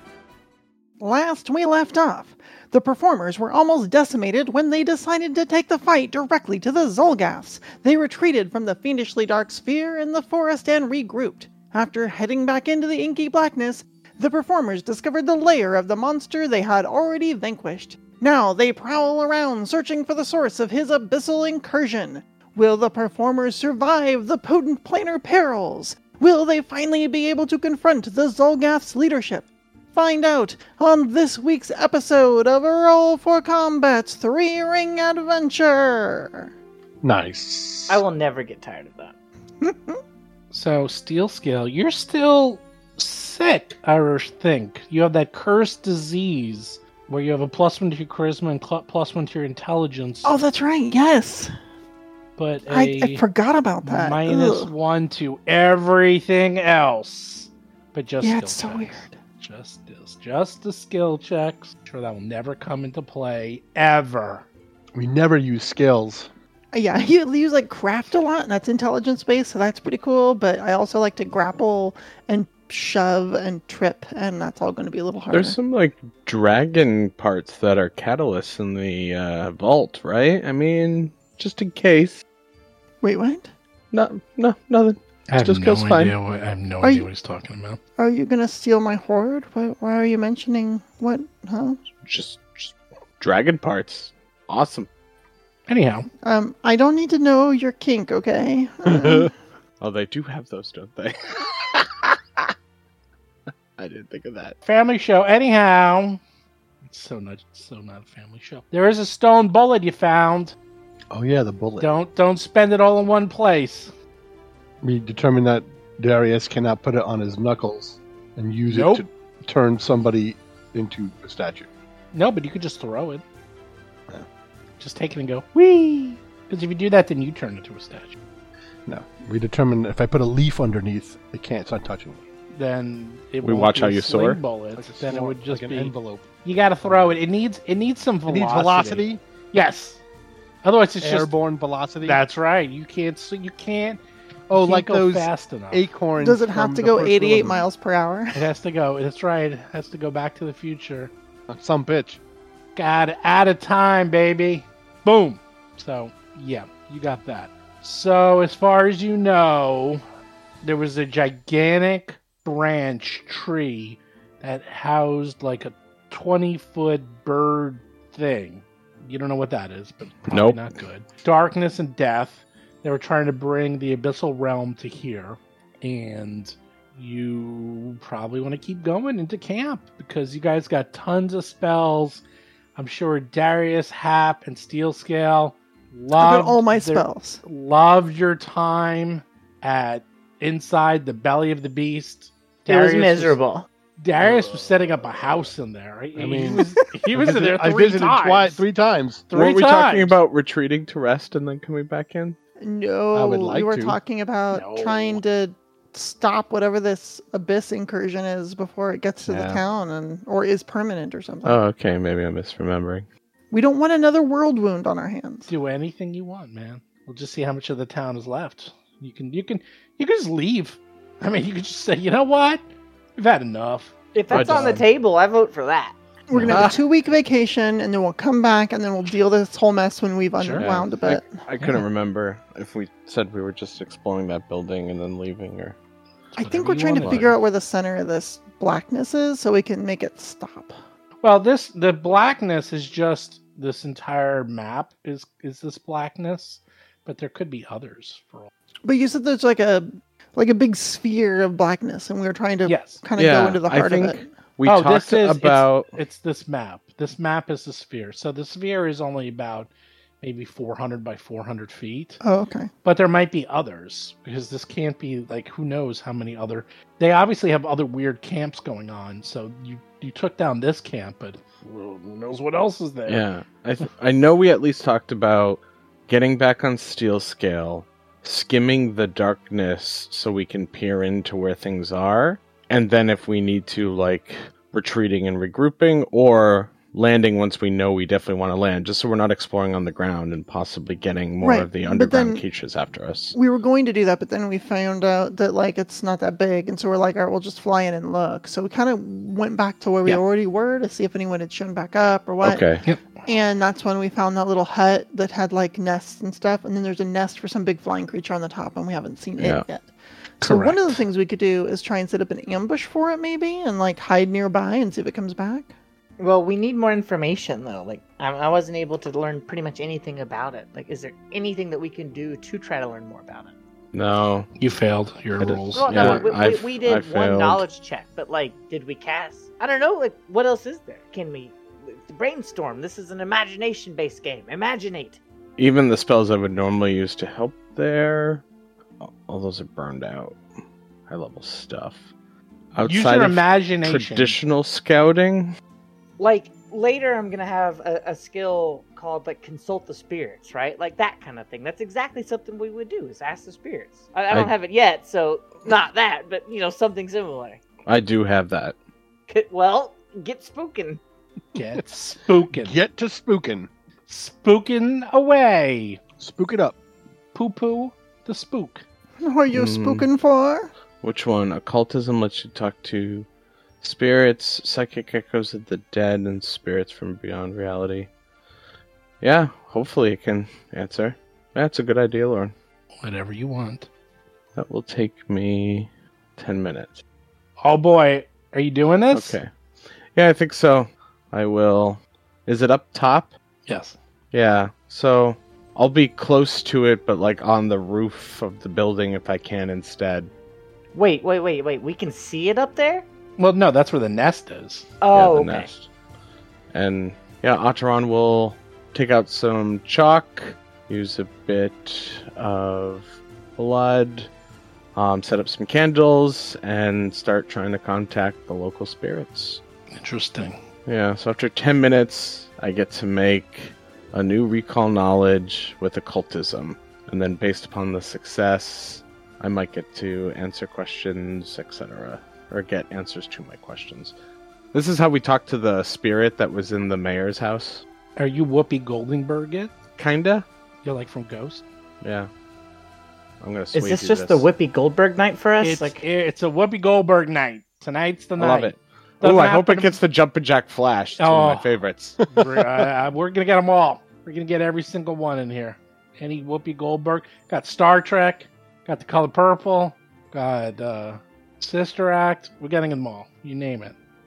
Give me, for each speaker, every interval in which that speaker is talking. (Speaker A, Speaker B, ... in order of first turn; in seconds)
Speaker A: 1.0-36.5, 39.6-40.0, 50.2-51.5, 52.7-54.7, 58.2-59.2, 66.7-75.6, 83.0-83.5, 86.8-87.1, 88.0-91.8, 96.2-99.3, 146.2-148.5, 186.1-187.4, 202.6-211.6, 213.5-215.5, 226.3-231.3, 236.4-240.7, 248.8-254.3, 262.2-262.7, 291.4-292.4, 293.3-302.6, 303.2-309.9, 310.4-315.7, 369.2-370.7
Speaker B: 37.0-38.0, 64.9-66.3, 98.9-99.3, 111.1-111.9, 114.8-121.7, 128.8-132.3, 134.7-136.3, 136.8-137.2, 138.3-139.2, 141.0-142.2, 144.5-147.6, 151.5-152.2, 194.2-195.5, 196.2-199.3, 203.1-204.0, 209.2-209.6, 362.5-363.7, 366.2-366.8
Speaker C: 37.9-39.1, 192.7-193.7, 224.1-225.9, 316.2-323.5, 325.7-335.2, 346.2-357.6, 359.3-361.0, 400.9-403.1, 405.0-405.7, 443.7-446.0
Speaker D: 40.5-50.4, 52.4-53.2, 53.8-64.5, 85.3-87.8, 95.7-96.1, 104.6-106.2, 106.8-110.5, 111.8-113.9, 118.7-119.0, 122.1-123.2, 124.8-128.1, 132.5-140.0, 140.6-141.3, 142.0-145.9, 148.3-151.1, 152.8-160.0, 160.6-182.2, 182.8-193.4, 194.0-198.6, 199.3-200.2, 204.5-205.2, 215.5-222.6, 223.2-224.8, 226.3-226.6, 230.4-230.7, 236.4-237.4, 241.2-248.5, 252.6-253.0, 254.6-259.7, 260.2-262.2, 262.8-273.2, 310.4-310.9, 324.6-326.2, 342.8-344.4, 361.5-362.8, 364.1-366.0, 367.3-368.8, 383.0-383.9, 387.6-389.4, 393.7-394.0, 403.4-404.9, 419.9-420.6, 438.2-439.7, 440.8-441.6, 445.6-450.0, 451.2-463.9
Speaker E: 75.3-82.2, 83.9-86.1, 92.0-94.9, 99.8-102.5, 103.8-104.6, 133.4-134.4, 170.3-170.7, 199.3-202.4, 211.4-213.1, 224.3-224.8, 226.5-226.8, 230.6-235.8, 237.0-237.2, 253.2-255.9, 273.1-293.4, 302.4-302.8, 309.4-309.6, 323.9-324.5, 325.4-327.6, 335.6-338.4, 339.0-340.4, 341.1-342.1, 342.7-345.5, 357.9-358.7, 369.5-370.1, 371.0-373.3, 373.8-378.1, 379.2-382.5, 384.6-387.0, 389.1-389.5, 390.1-393.3, 394.3-400.3, 405.1-405.9, 406.7-414.3, 414.9-419.6, 420.9-434.1, 434.7-437.8, 440.0-440.5, 442.0-442.3, 443.4-444.4, 448.4-452.3